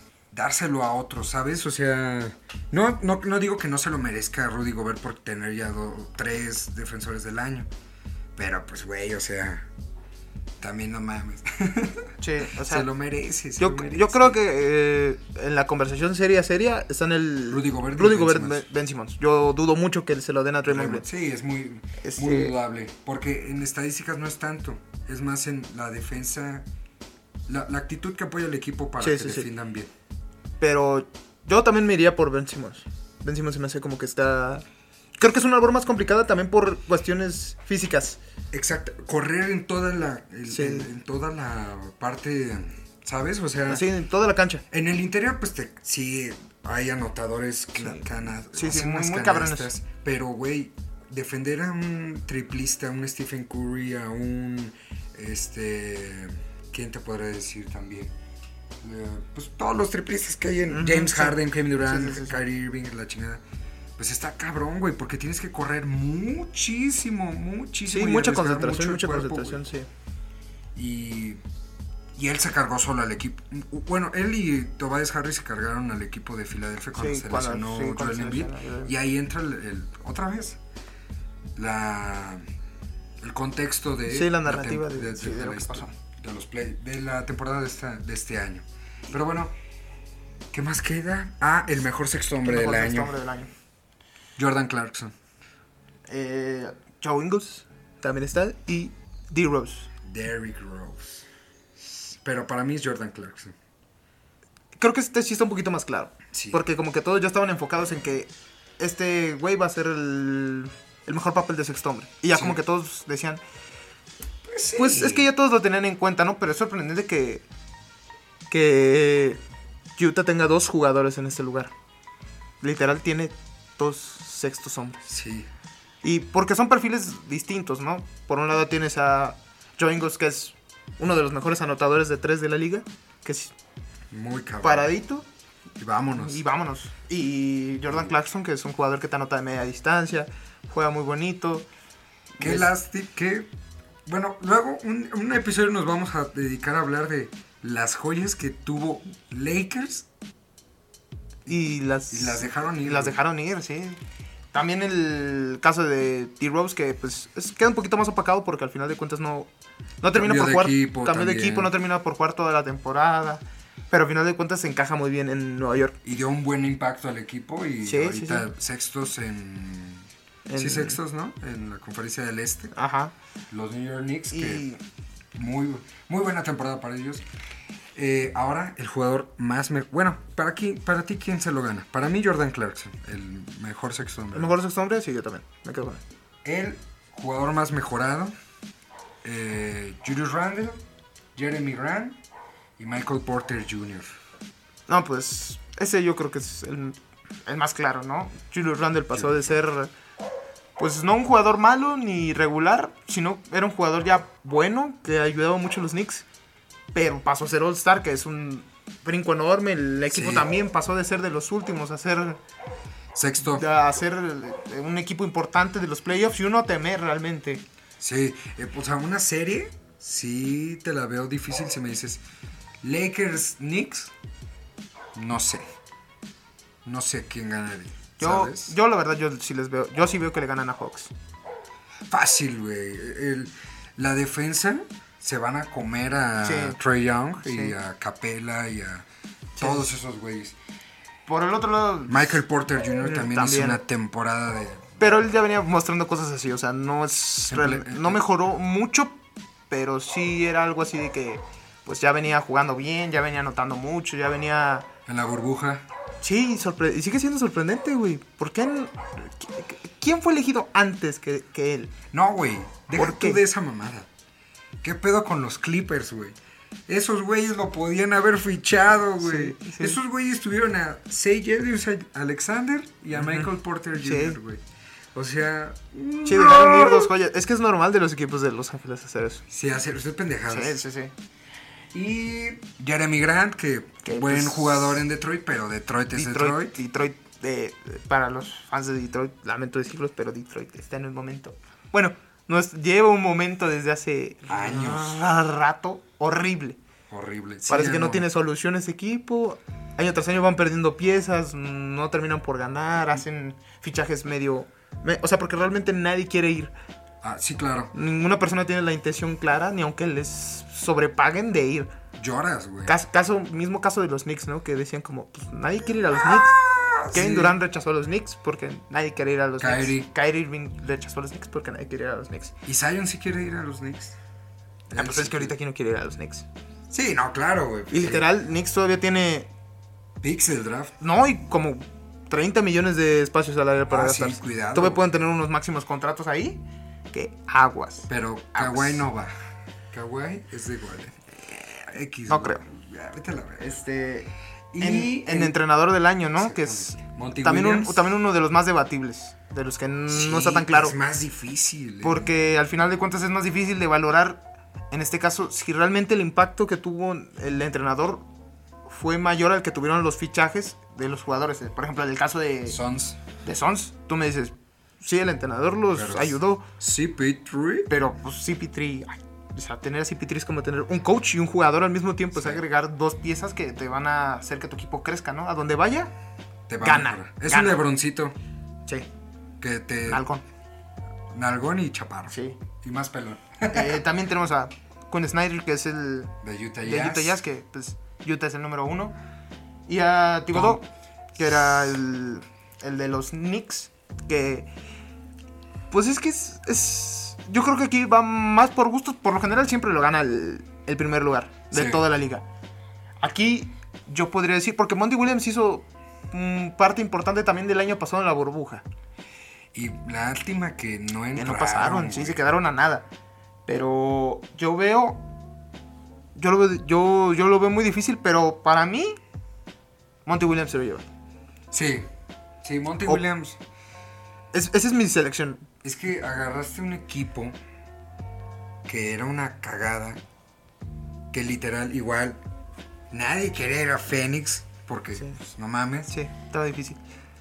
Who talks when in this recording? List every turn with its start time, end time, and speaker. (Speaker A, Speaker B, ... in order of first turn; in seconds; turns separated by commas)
Speaker A: 0.3-7.7, Speaker A: 8.3-9.7, Speaker A: 10.6-14.4, Speaker B: 12.2-12.9, Speaker B: 13.6-21.1, Speaker A: 17.5-18.7, Speaker A: 20.6-26.7, Speaker B: 22.0-22.5, Speaker A: 27.5-29.9, Speaker B: 29.0-29.5, Speaker B: 30.6-34.6, Speaker B: 35.2-38.2, Speaker A: 38.5-43.9, Speaker B: 40.5-40.9, Speaker B: 43.7-44.6, Speaker A: 44.7-58.1, Speaker B: 47.8-49.7, Speaker A: 58.8-63.4, Speaker B: 60.7-62.4, Speaker A: 64.0-69.6, Speaker B: 67.9-69.9, Speaker A: 70.8-71.4, Speaker A: 72.2-80.6, Speaker B: 77.0-78.9, Speaker A: 81.6-82.4, Speaker A: 83.2-89.5, Speaker B: 84.1-85.9, Speaker A: 90.5-93.2, Speaker B: 92.5-93.5, Speaker A: 94.4-95.1, Speaker B: 96.1-99.9, Speaker A: 100.0-101.3, Speaker A: 101.8-103.6, Speaker B: 104.8-113.4, Speaker A: 106.3-106.6, Speaker A: 114.5-115.3, Speaker B: 114.8-117.5, Speaker B: 118.5-119.4, Speaker B: 120.0-121.7, Speaker B: 122.6-125.1, Speaker A: 125.1-125.5, Speaker B: 126.0-133.5, Speaker A: 134.1-134.9, Speaker B: 134.6-135.3, Speaker A: 135.8-136.4, Speaker B: 136.2-141.7, Speaker B: 142.3-142.7, Speaker A: 142.4-143.5, Speaker A: 144.1-150.1, Speaker B: 151.5-154.0, Speaker A: 152.1-153.2, Speaker B: 154.5-159.5, Speaker B: 160.0-166.0, Speaker A: 160.1-161.7, Speaker A: 166.0-172.7, Speaker B: 167.8-168.5, Speaker B: 170.5-171.0, Speaker B: 172.7-173.1, Speaker A: 173.5-174.7, Speaker B: 174.3-174.8, Speaker A: 175.4-177.2, Speaker A: 177.9-184.6, Speaker B: 184.3-186.0, Speaker A: 186.4-188.3, Speaker A: 189.2-190.8, Speaker A: 191.3-192.2, Speaker A: 192.8-194.1, Speaker B: 194.9-199.9, Speaker A: 199.1-199.5, Speaker B: 200.8-206.3, Speaker B: 206.9-212.4, Speaker A: 210.1-210.5, Speaker A: 213.2-213.7, Speaker B: 213.4-217.6, Speaker A: 218.0-222.2, Speaker A: 222.8-224.1, Speaker A: 225.1-225.6, Speaker A: 226.8-228.7, Speaker B: 228.2-231.1, Speaker A: 232.1-239.1, Speaker B: 236.4-236.8, Speaker B: 237.4-237.8, Speaker B: 239.6-239.9, Speaker A: 239.6-240.6, Speaker B: 241.3-242.4, Speaker A: 242.1-245.0, Speaker B: 243.0-243.8, Speaker B: 245.0-254.9, Speaker A: 247.5-248.2, Speaker A: 255.1-255.9, Speaker B: 256.2-262.0, Speaker A: 262.1-264.1, Speaker B: 262.9-263.4, Speaker A: 264.8-266.4, Speaker A: 266.9-274.6, Speaker B: 269.2-270.0, Speaker B: 273.1-274.4, Speaker A: 275.1-277.1, Speaker B: 276.2-279.4, Speaker A: 279.5-280.8, Speaker B: 280.5-281.1, Speaker A: 281.9-286.8, Speaker B: 284.0-285.1, Speaker B: 286.1-296.8, Speaker A: 294.5-295.2, Speaker A: 297.1-298.3, Speaker B: 297.7-306.7, Speaker A: 307.2-307.9, Speaker B: 307.9-311.9, Speaker A: 312.2-312.9, Speaker B: 312.9-316.6, Speaker A: 316.1-317.6, Speaker B: 317.1-322.5, Speaker A: 319.6-320.1, Speaker A: 322.6-324.2, Speaker A: 324.9-325.5, Speaker B: 325.0-326.5, Speaker A: 326.9-328.3, Speaker B: 327.9-329.5, Speaker A: 330.2-331.0, Speaker B: 331.0-339.1, Speaker A: 333.9-335.1, Speaker A: 338.1-339.4, Speaker A: 339.9-341.2, Speaker A: 341.8-343.8, Speaker B: 342.3-342.6, Speaker B: 343.6-351.0, Speaker A: 344.7-345.6, Speaker A: 346.4-348.0, Speaker A: 350.1-352.3, Speaker B: 352.0-358.3, Speaker B: 358.9-362.8, Speaker A: 362.7-363.2, Speaker B: 363.4-366.7, Speaker A: 365.9-367.9, Speaker B: 367.9-376.1, Speaker A: 372.3-372.6, Speaker A: 376.7-378.4, Speaker B: 376.8-377.8, Speaker A: 379.6-380.2, Speaker B: 380.1-380.4, Speaker A: 381.3-384.0, Speaker B: 382.3-382.6, Speaker B: 383.7-389.1, Speaker A: 386.4-387.4, Speaker B: 389.9-390.8, Speaker A: 390.5-390.8, Speaker B: 391.4-394.7, Speaker B: 395.9-402.4, Speaker A: 401.7-402.0, Speaker B: 403.2-408.8, Speaker A: 409.7-412.4, Speaker B: 411.4-413.1, Speaker B: 413.7-415.2, Speaker B: 416.4-419.2, Speaker B: 420.3-421.1, Speaker A: 421.7-422.1, Speaker A: 422.6-423.6, Speaker B: 424.5-425.6, Speaker A: 425.8-427.6, Speaker A: 428.9-430.2, Speaker A: 431.3-432.4, Speaker A: 433.1-436.1, Speaker B: 436.1-437.0